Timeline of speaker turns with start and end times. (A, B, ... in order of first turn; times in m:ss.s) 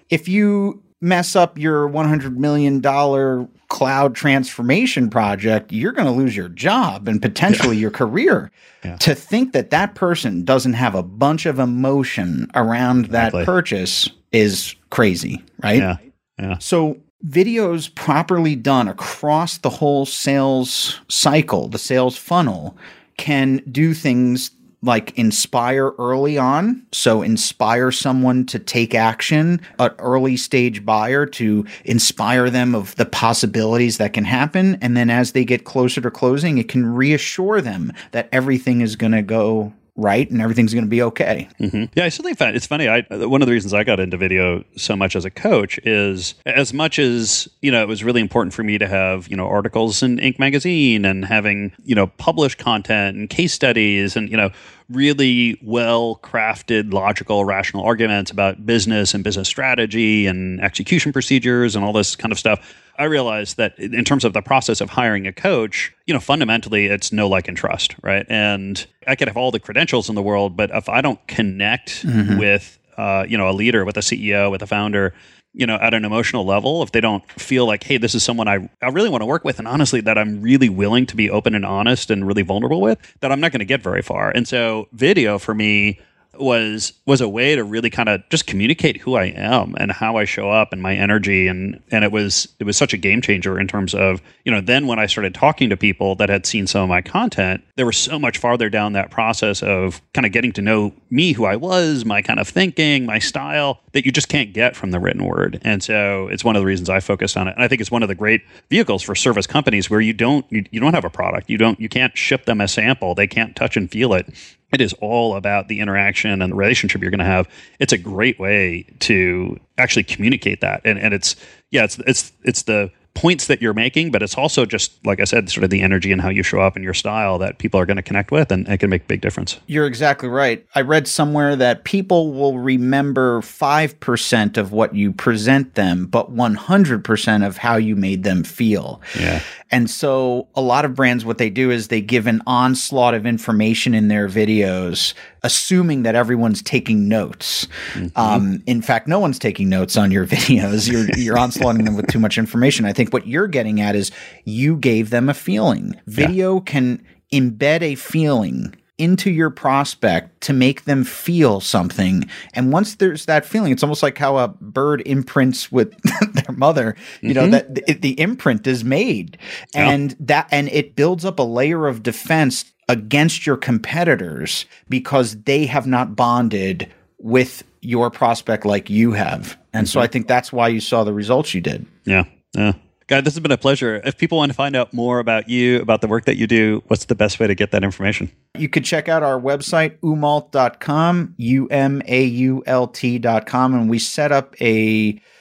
0:00.1-0:15.9 A
0:13.1-0:13.5 B
0:15.8-0:16.6 B
0:16.6-0:41.5 A
0:41.6-2:09.6 B
1:12.1-1:12.4 A
2:09.7-2:19.1 A
2:19.1-2:19.4 B
2:19.7-3:01.9 A
2:28.0-2:28.4 B
2:47.2-2:47.6 B
3:02.1-3:08.3 B
3:08.6-3:15.2 A